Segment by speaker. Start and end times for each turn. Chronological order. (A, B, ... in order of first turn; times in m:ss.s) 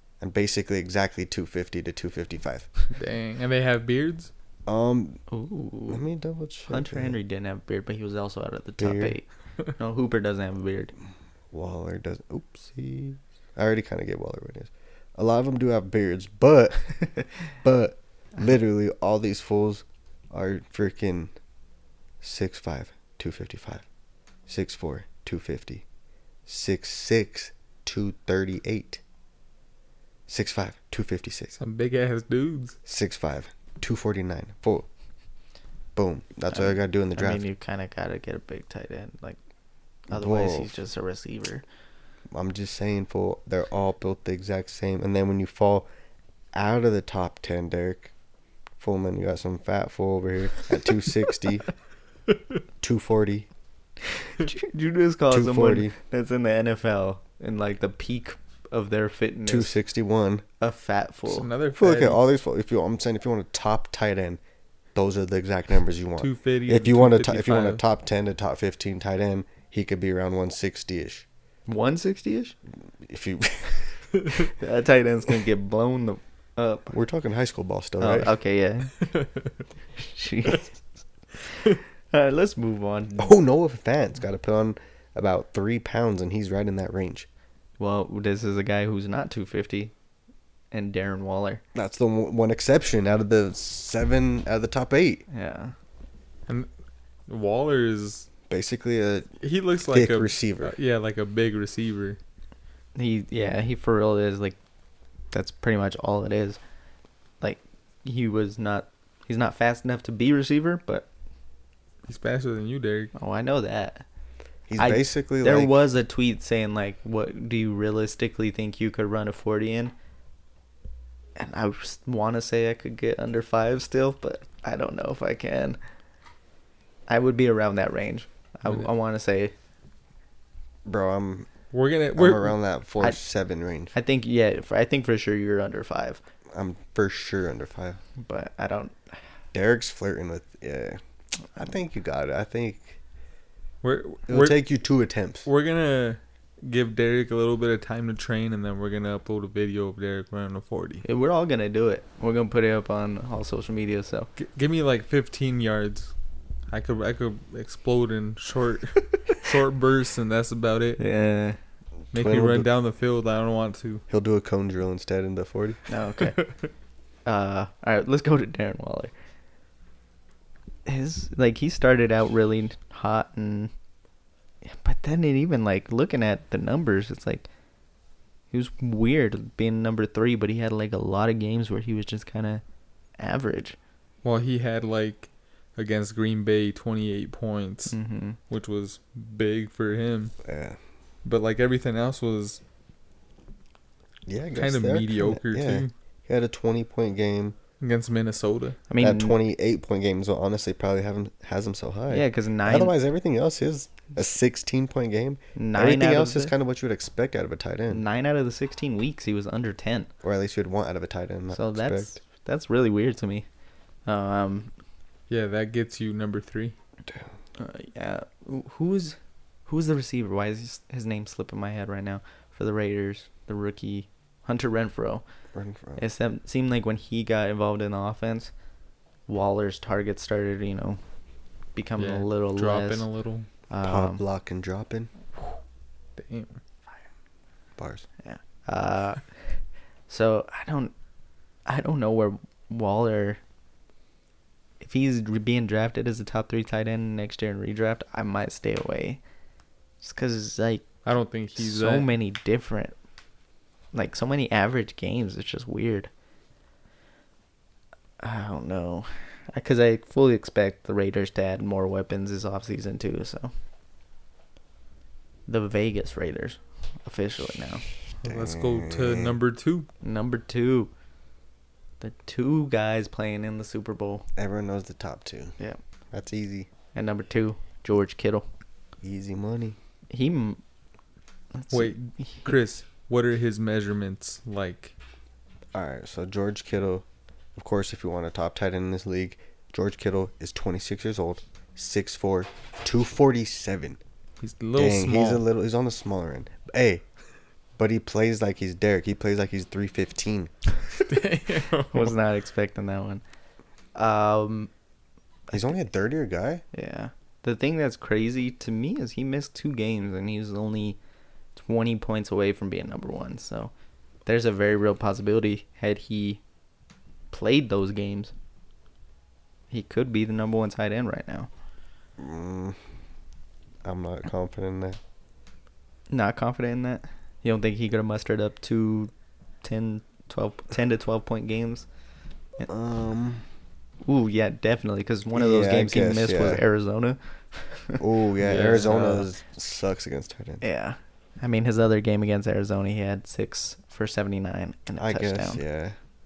0:00.2-0:02.7 A
0:02.9-0:04.3 B
0:04.7-0:05.2 A
0:05.3-0:06.0 C
0:05.9-0:07.2 A
0:06.7-0:10.9 C
0:08.8-0:09.2 A
0:11.5-0:21.3 A
0:22.2-0:23.8 A
0:24.5-0:25.8 A
0:26.5-0:29.0 A
0:30.3-0:31.6 A
0:31.6-0:32.8 B
0:32.9-0:34.9 A
0:36.0-0:37.4 A
0:36.5-0:39.4 C
0:40.1-0:41.6 C
0:40.1-0:40.8 A
0:42.3-0:45.9 A
0:46.5-0:48.1 A
0:48.8-0:51.7 A
0:52.8-0:53.5 A
0:54.3-0:59.8 C
0:55.3-0:56.0 A
0:59.5-1:00.4 A
1:00.6-1:01.5 C
1:01.3-1:02.2 B
1:01.8-1:04.4 A
1:05.0-1:11.3 A
1:06.2-1:07.8 B
1:11.7-1:12.6 C
1:13.0-1:14.0 A
1:14.4-1:16.9 C
1:16.9-1:18.4 A
1:18.0-1:19.1 C
1:20.0-1:20.8 C
1:21.7-1:23.4 C
1:23.2-1:27.3 A
1:27.8-1:29.9 C
1:30.7-1:31.6 C
1:31.7-1:35.2 A
1:35.3-1:35.7 C
1:37.3-1:38.3 B
1:38.5-1:39.4 A
1:39.4-1:42.2 B
1:39.9-1:40.8 A
1:43.0-1:44.6 C
1:45.3-1:46.6 C
1:47.4-1:51.1 C
1:52.1-1:53.1 B
1:53.2-1:54.0 C
1:54.7-1:55.8 A
1:54.8-1:59.9 C
2:01.4-2:05.8 C
2:07.1-2:09.5 C
2:10.8-2:11.5 A
2:11.7-2:12.6 B
2:12.1-2:13.9 A
2:13.9-2:16.2 C
2:16.5-2:18.0 A
2:18.2-2:19.2 C
2:19.5-2:21.0 A
2:21.6-2:23.0 A
2:23.8-2:24.6 B
2:24.3-2:25.5 A
2:25.5-2:31.0 B
2:31.0-2:34.3 C
2:34.4-2:36.1 B
2:36.7-2:41.0 B
2:41.0-2:41.6 C
2:42.1-2:42.7 A
2:42.1-2:44.0 B
2:44.1-2:45.8 A
2:45.9-2:46.4 C
2:47.2-2:49.1 C
2:50.9-2:53.7 C
2:54.6-2:57.5 C
2:58.5-3:02.6 C
3:03.2-3:03.8 C
3:04.2-3:08.0 B
3:07.9-3:08.4 C
3:08.5-3:10.3 B
3:10.4-3:10.8 A
3:11.2-3:12.6 B
3:14.3-3:17.6 A
3:14.6-3:15.9 B
3:17.8-3:18.8 B
3:18.9-3:19.4 C
3:19.0-3:28.0 A
3:22.1-3:22.9 C
3:25.6-3:26.5 C
3:27.9-3:30.1 C
3:30.2-3:32.2 A
3:31.5-3:33.5 C
3:34.1-3:34.7 C
3:35.3-3:36.8 B
3:37.1-3:37.3 A
3:37.6-3:45.2 C
3:45.5-3:46.0 A
3:46.0-3:48.5 C
3:49.3-3:51.0 C
3:51.8-3:53.0 C
3:52.0-3:53.5 B
3:53.7-3:54.2 C
3:53.8-3:55.1 A
3:56.2-3:56.6 B
3:57.8-3:58.1 A
3:58.2-4:00.9 C
4:01.7-4:03.4 C
4:04.8-4:09.2 C
4:10.0-4:10.9 C
4:11.0-4:12.1 B
4:11.6-4:13.0 C
4:13.9-4:16.1 C
4:18.2-4:23.5 C
4:25.5-4:27.9 C
4:28.2-4:29.9 B
4:28.2-4:29.4 A
4:30.0-4:30.9 C
4:32.0-4:34.3 C
4:34.4-4:35.6 A
4:36.1-4:36.7 A
4:36.9-4:38.5 C
4:39.0-4:39.8 A
4:40.1-4:40.6 C
4:41.5-4:42.5 C
4:41.7-4:44.9 B
4:45.7-4:54.0 A
4:54.4-4:55.4 B
4:54.8-4:57.0 A
4:57.8-5:00.5 A
5:01.0-5:02.2 B
5:01.9-5:03.2 C
5:04.0-5:04.7 C
5:05.5-5:06.6 A
5:06.7-5:11.0 C
5:11.6-5:13.7 C
5:14.3-5:16.4 C
5:17.3-5:18.3 C
5:19.7-5:21.5 C
5:22.2-5:22.8 A
5:23.8-5:25.0 A
5:26.1-5:29.1 C
5:29.6-5:31.9 C
5:32.7-5:33.5 A
5:34.0-5:38.0 C
5:35.3-5:36.6 A
5:38.0-5:40.6 A
5:38.4-5:39.3 B
5:40.6-5:45.6 C
5:45.0-5:46.0 A